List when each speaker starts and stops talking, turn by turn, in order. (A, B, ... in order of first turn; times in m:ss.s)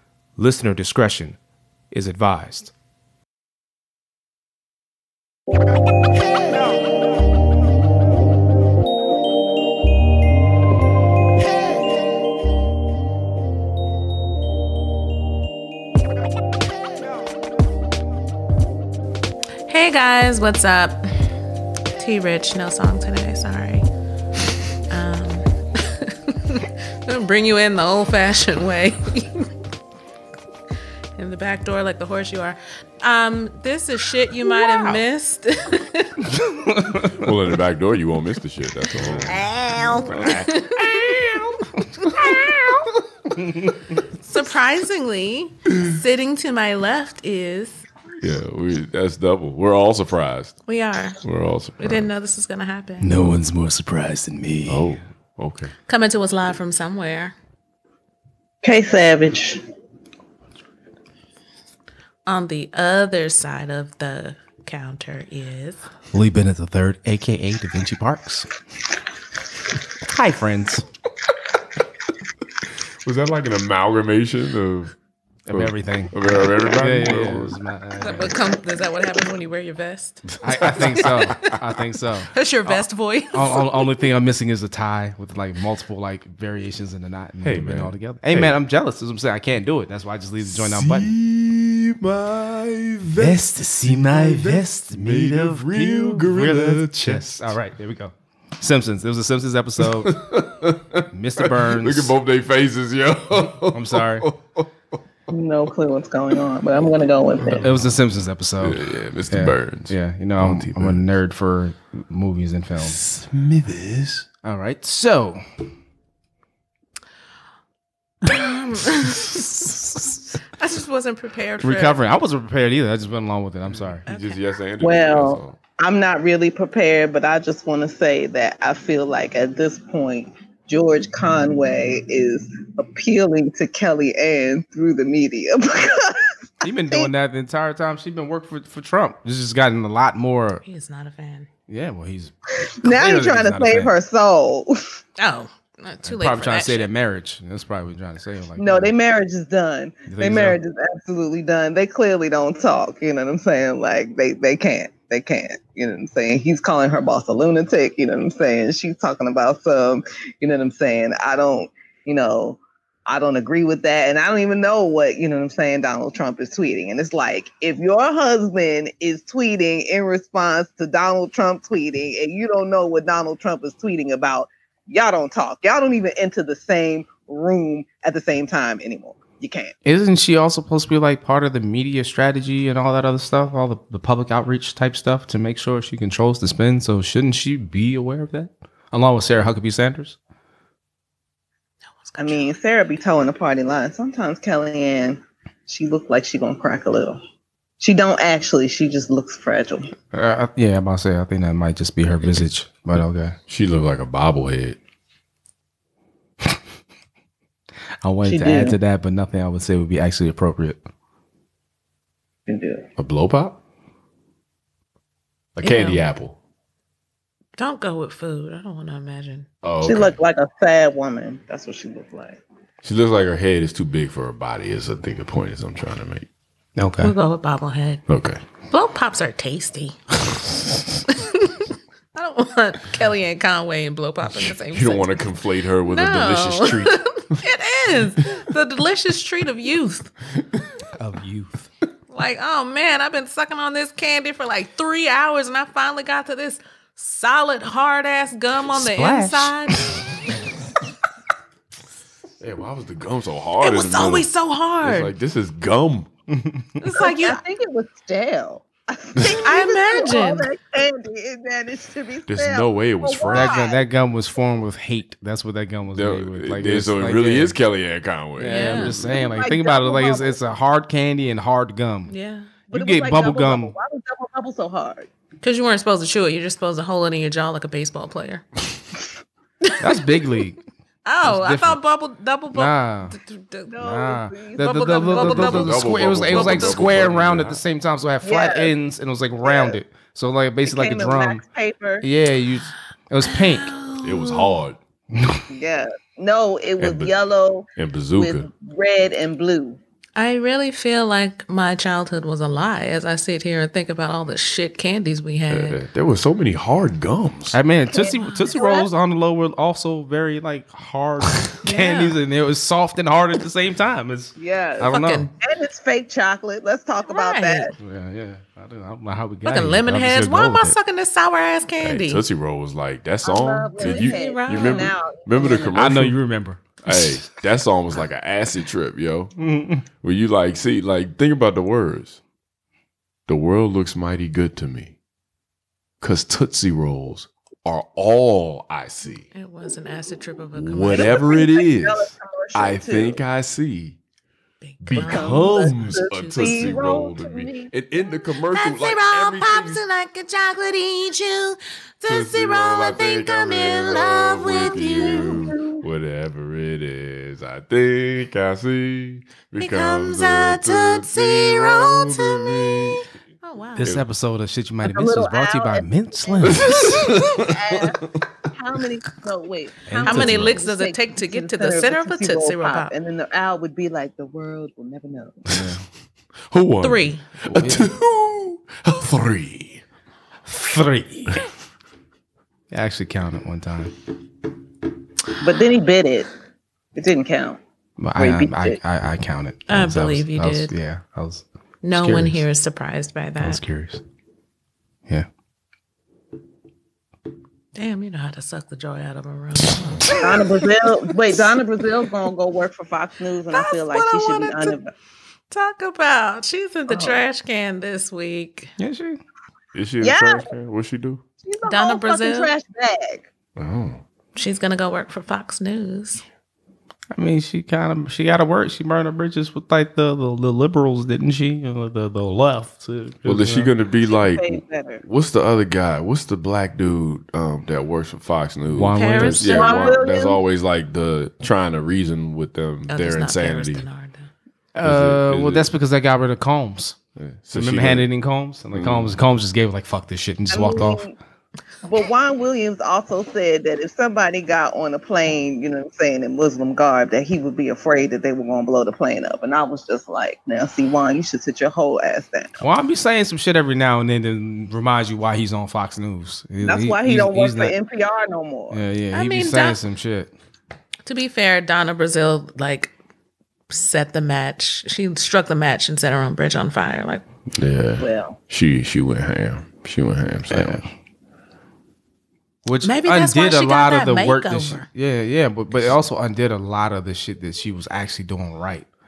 0:00.4-0:01.4 A
0:01.9-0:02.7 A
0:19.7-0:21.3 B
0:22.0-0:23.9 B
0:24.9-0:29.5 B
0:31.2-0:36.3 B
0:36.3-0:37.3 A
0:37.0-0:40.7 C
0:39.3-0:40.2 D
0:39.4-0:41.4 B
0:40.2-0:42.5 A
0:42.0-0:42.7 B
0:43.4-0:44.0 A
0:44.2-0:47.9 B
0:48.2-0:50.6 C
0:50.7-0:51.2 B
0:51.2-0:52.1 C
0:51.8-0:53.1 B
0:53.0-0:54.9 A
0:53.1-0:53.4 C
0:54.7-0:55.7 C
0:55.9-0:57.4 B
0:58.6-0:59.6 D
1:02.2-1:05.8 B
1:06.1-1:08.5 A
1:10.0-1:10.8 A
1:13.0-1:14.9 C
1:15.5-1:18.3 A
1:15.5-1:17.6 C
1:18.0-1:21.2 B
1:20.4-1:22.3 A
1:20.5-1:21.5 C
1:22.3-1:23.7 B
1:23.3-1:31.1 A
1:27.4-1:28.6 C
1:30.4-1:37.5 C
1:33.2-1:40.2 A
1:39.9-1:44.7 C
1:41.1-1:42.1 A
1:43.7-1:44.3 A
1:45.3-1:47.7 D
1:47.4-1:47.7 C
1:47.6-1:53.0 A
1:48.6-1:51.0 C
1:52.8-1:54.3 C
1:54.4-1:55.4 A
1:58.2-1:59.7 B
2:00.3-2:02.0 B
2:01.6-2:04.0 A
2:03.7-2:05.6 C
2:04.1-2:04.4 B
2:04.8-2:16.4 D
2:16.6-2:20.6 A
2:20.6-2:21.5 B
2:21.7-2:23.9 A
2:22.6-2:24.8 D
2:25.2-2:26.9 B
2:26.0-2:28.9 A
2:28.6-2:59.7 D
2:30.1-2:30.6 A
2:59.8-3:10.2 A
3:12.0-3:12.6 B
3:12.2-3:17.2 D
3:17.8-3:19.9 D
3:20.1-3:23.4 A
3:23.5-3:24.8 C
3:28.0-3:30.8 A
3:28.2-3:28.8 D
3:32.5-3:32.9 D
3:33.0-3:33.6 C
3:35.6-3:36.4 C
3:35.6-3:36.0 B
3:37.6-3:39.5 B
3:39.6-3:40.2 C
3:39.8-3:42.4 D
3:42.8-3:46.3 C
3:46.8-3:47.2 A
3:47.0-3:48.0 B
3:48.1-3:48.4 C
3:48.7-3:50.0 B
3:51.1-3:55.3 B
3:54.3-3:57.4 C
3:55.8-4:00.1 B
4:00.9-4:01.7 A
4:02.1-4:10.4 B
4:08.7-4:09.6 A
4:12.4-4:14.3 C
4:13.6-4:15.1 B
4:14.8-4:16.1 C
4:16.3-4:16.8 A
4:16.8-4:17.4 B
4:17.0-4:23.8 D
4:19.2-4:20.5 B
4:22.3-4:23.6 C
4:23.3-4:27.6 A
4:26.0-4:29.1 C
4:28.4-4:32.1 A
4:28.4-4:29.0 B
4:28.9-4:30.4 D
4:32.1-4:32.5 B
4:32.7-4:35.1 D
4:32.7-4:33.7 A
4:35.4-4:38.4 B
4:39.6-4:40.0 B
4:39.8-4:40.6 A
4:41.0-4:43.7 B
4:41.2-4:41.8 A
4:42.5-4:43.2 A
4:43.7-4:45.2 D
4:43.8-4:51.4 A
4:44.6-4:46.9 B
4:45.2-4:47.6 C
4:48.2-4:48.7 D
4:49.4-4:49.8 D
4:50.7-4:52.1 D
4:52.0-4:53.8 A
4:53.3-4:54.6 B
4:54.0-4:54.8 C
4:55.1-4:55.5 A
4:55.5-4:59.8 D
4:56.8-4:57.1 C
4:57.8-4:58.5 C
5:00.2-5:05.8 B
5:05.5-5:07.6 C
5:07.5-5:15.3 A
5:07.9-5:08.9 D
5:08.1-5:08.5 B
5:11.6-5:12.2 B
5:14.4-5:17.7 D
5:14.8-5:15.3 B
5:17.1-5:17.7 B
5:17.8-5:20.8 A
5:19.5-5:22.2 B
5:21.8-5:26.2 C
5:23.2-5:25.9 D
5:23.8-5:24.9 B
5:25.7-5:27.2 A
5:26.8-5:29.3 C
5:29.4-5:29.8 A
5:30.0-5:32.2 C
5:33.3-5:35.0 C
5:36.0-5:39.3 C
5:39.3-5:41.4 B
5:40.6-5:44.0 C
5:40.9-5:43.2 D
5:44.6-5:47.0 B
5:44.8-5:49.8 C
5:44.9-5:47.7 D
5:48.5-5:55.5 B
5:52.0-6:03.1 C
5:54.6-5:55.8 D
5:59.6-6:03.9 B
6:03.8-6:06.9 A
6:04.8-6:15.5 D
6:06.4-6:08.3 C
6:06.9-6:07.2 B
6:09.9-6:10.6 A
6:10.0-6:12.9 B
6:15.5-6:15.8 A
6:16.5-6:19.8 C
6:16.8-6:17.2 B
6:17.5-6:17.9 A
6:20.5-6:21.4 A
6:22.7-6:23.9 A
6:25.4-6:26.3 D
6:27.0-6:27.6 D
6:28.0-6:32.4 A
6:28.2-6:28.8 D
6:29.7-6:30.7 B
6:31.8-6:33.6 B
6:33.4-6:34.0 A
6:37.8-6:41.6 B
6:40.1-6:44.9 D
6:43.5-6:44.8 B
6:45.5-6:48.7 B
6:46.9-6:47.2 D
6:48.8-6:49.2 A
6:49.7-6:51.2 C
6:50.0-6:50.5 D
6:51.4-6:53.3 D
6:51.6-6:52.5 B
6:53.6-6:54.0 C
6:54.4-6:56.2 B
6:57.2-7:03.7 A
7:03.2-7:13.9 C
7:04.0-7:05.0 D
7:08.7-7:09.6 A
7:08.9-7:10.0 B
7:09.5-7:10.4 D
7:12.9-7:14.3 B
7:14.8-7:17.0 A
7:14.8-7:15.7 C
7:17.2-7:18.1 C
7:17.5-7:21.0 A
7:18.7-7:19.2 C
7:20.5-7:21.2 D
7:21.8-7:32.6 D
7:32.6-7:37.7 A
7:36.6-7:38.8 D
7:38.7-7:40.3 A
7:39.1-7:39.8 B
7:41.1-7:42.9 B
7:43.7-7:47.2 B
7:47.5-7:50.8 C
7:48.0-7:48.4 D
7:50.5-7:50.9 A
7:52.6-7:58.9 A
7:52.8-7:54.9 B